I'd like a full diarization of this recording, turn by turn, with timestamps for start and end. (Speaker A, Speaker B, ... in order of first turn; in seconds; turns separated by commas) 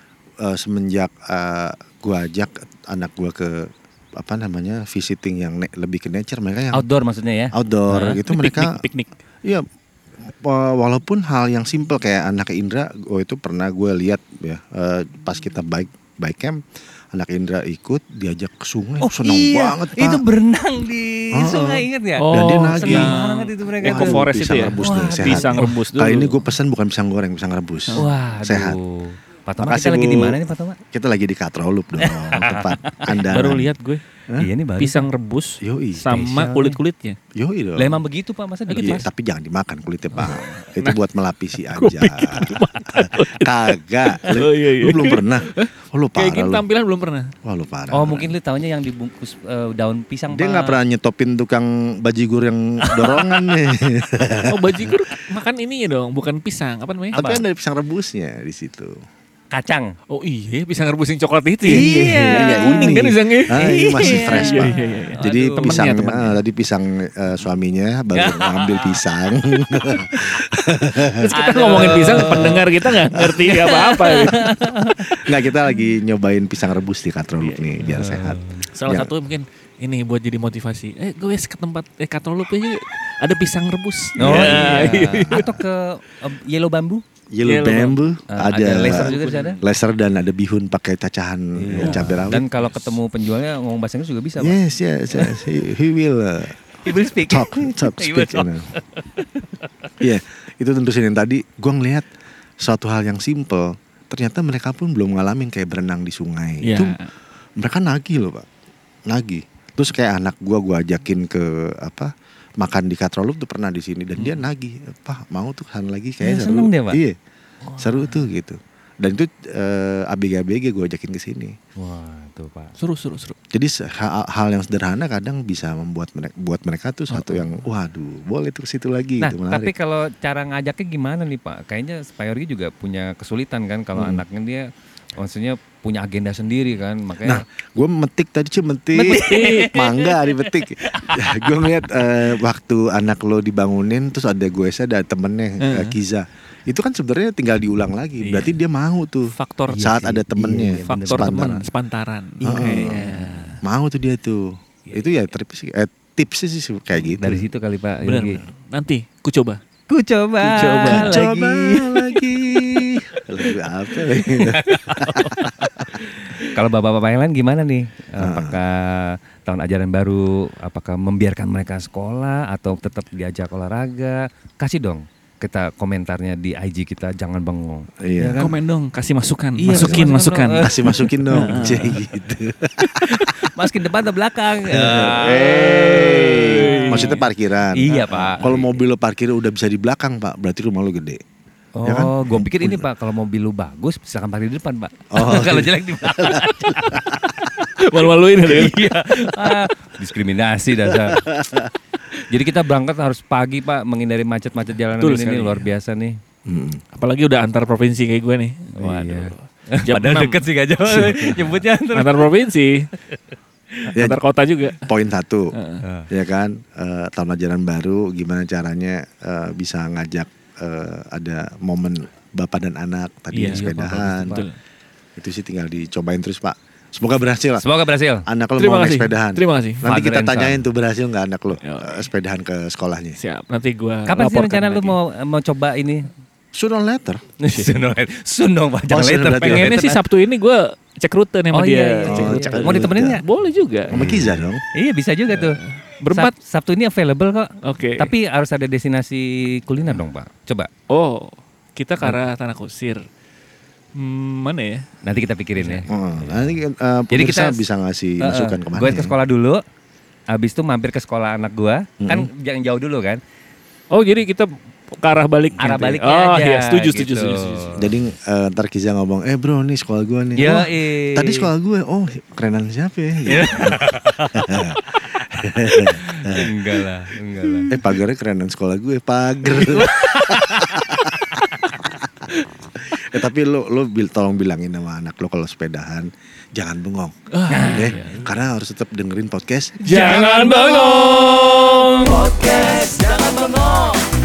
Speaker A: 0.4-6.9, Speaker B: 6.7-8.2, Speaker A: 7.5-8.8, Speaker C: 7.9-9.1, Speaker A: 10.2-16.6, Speaker A: 17.1-20.2, Speaker B: 19.0-24.2, Speaker A: 21.3-23.2, Speaker C: 22.2-26.5, Speaker A: 23.8-28.8, Speaker B: 24.8-25.7, Speaker B: 27.9-30.8, Speaker A: 29.6-30.4, Speaker A: 30.9-33.7, Speaker B: 32.0-33.2, Speaker C: 33.1-34.0, Speaker B: 34.4-35.1, Speaker C: 34.8-37.2, Speaker A: 35.6-36.2, Speaker B: 36.0-36.8, Speaker A: 37.4-38.0, Speaker B: 37.8-39.0, Speaker C: 38.7-39.1, Speaker A: 38.8-46.6, Speaker C: 40.1-41.0, Speaker C: 41.6-47.3, Speaker A: 47.4-48.3, Speaker B: 47.9-50.8, Speaker A: 50.3-55.0, Speaker C: 52.9-53.7, Speaker C: 54.5-57.2, Speaker B: 57.1-57.4, Speaker A: 57.1-58.9, Speaker B: 59.5-59.9, Speaker C: 60.1-66.4, Speaker B: 61.7-66.0, Speaker A: 61.7-73.6, Speaker B: 68.1-69.0, Speaker B: 69.9-70.2, Speaker C: 71.1-74.6, Speaker B: 71.2-72.7, Speaker B: 73.5-75.3, Speaker A: 75.0-79.1, Speaker C: 77.4-77.9, Speaker B: 77.8-78.7, Speaker C: 78.7-85.5, Speaker B: 84.2-87.0, Speaker A: 84.2-85.5, Speaker A: 87.3-92.5, Speaker C: 87.4-88.0, Speaker B: 88.3-89.6, Speaker C: 88.5-89.6, Speaker B: 91.6-94.6, Speaker C: 91.8-93.0, Speaker A: 94.4-98.7, Speaker B: 96.8-99.9, Speaker A: 100.0-102.1, Speaker A: 102.6-107.0, Speaker C: 106.6-107.1, Speaker A: 107.6-108.5, Speaker A: 109.1-117.2, Speaker C: 114.2-114.5, Speaker B: 116.2-117.0, Speaker B: 117.7-118.2, Speaker A: 117.8-121.6, Speaker B: 121.8-122.7, Speaker C: 122.8-123.3, Speaker A: 123.5-129.7, Speaker C: 127.1-127.5, Speaker B: 129.2-137.4, Speaker A: 133.9-134.2, Speaker A: 137.2-151.7, Speaker B: 138.9-142.2, Speaker C: 139.1-139.7, Speaker C: 145.6-146.0, Speaker C: 148.2-148.6, Speaker C: 149.3-149.9, Speaker B: 149.7-151.7, Speaker C: 150.9-153.6, Speaker B: 152.4-153.6, Speaker A: 152.5-153.1, Speaker A: 153.6-157.5, Speaker B: 157.0-158.4, Speaker C: 158.1-159.6, Speaker B: 159.9-162.2, Speaker C: 160.4-161.3, Speaker A: 160.8-165.8, Speaker C: 164.2-164.8, Speaker B: 164.4-165.5, Speaker C: 165.4-165.8, Speaker B: 166.5-178.6, Speaker A: 168.2-168.6, Speaker A: 178.0-178.4, Speaker C: 178.4-182.1, Speaker B: 179.6-181.9, Speaker A: 179.7-183.5, Speaker B: 183.0-187.2, Speaker A: 184.7-191.2, Speaker C: 186.3-187.3, Speaker B: 187.7-188.5, Speaker C: 187.9-188.8, Speaker B: 191.8-197.4, Speaker A: 191.8-192.9, Speaker A: 195.1-197.4, Speaker C: 197.8-199.6, Speaker B: 198.4-201.3, Speaker A: 200.9-201.7, Speaker B: 202.2-206.2, Speaker C: 205.0-205.7, Speaker A: 206.5-206.8, Speaker C: 206.9-212.9, Speaker B: 208.8-212.3, Speaker C: 213.9-214.9, Speaker A: 214.8-215.6, Speaker C: 215.5-215.8, Speaker B: 215.8-216.1, Speaker A: 216.1-224.4, Speaker C: 223.3-223.7, Speaker B: 223.5-224.5, Speaker C: 224.2-224.6, Speaker A: 225.2-227.7, Speaker B: 227.6-228.2, Speaker A: 228.3-233.2, Speaker C: 228.6-229.8, Speaker B: 229.8-230.7, Speaker C: 231.6-232.1, Speaker C: 233.2-235.0, Speaker B: 234.1-236.1, Speaker A: 236.5-237.3, Speaker B: 237.4-240.0, Speaker A: 238.9-239.8, Speaker C: 239.4-244.1, Speaker B: 241.5-243.2, Speaker A: 242.1-243.2, Speaker A: 243.9-244.6, Speaker B: 243.9-245.6, Speaker C: 245.3-246.3, Speaker B: 246.1-250.7, Speaker C: 247.6-248.1, Speaker C: 250.9-253.1, Speaker C: 253.9-254.9, Speaker B: 255.0-255.9, Speaker C: 255.6-256.5, Speaker A: 255.9-259.1, Speaker B: 257.1-257.6, Speaker B: 258.2-259.6, Speaker B: 260.3-263.2, Speaker A: 262.0-262.3, Speaker C: 263.9-267.8, Speaker B: 265.6-267.9, Speaker A: 267.8-276.5, Speaker B: 270.4-271.5, Speaker B: 273.3-274.7, Speaker B: 275.6-277.7, Speaker A: 277.7-282.3, Speaker B: 279.5-281.8, Speaker A: 282.8-289.9, Speaker C: 287.3-288.3, Speaker B: 287.5-288.1, Speaker C: 289.8-293.6, Speaker B: 289.8-294.0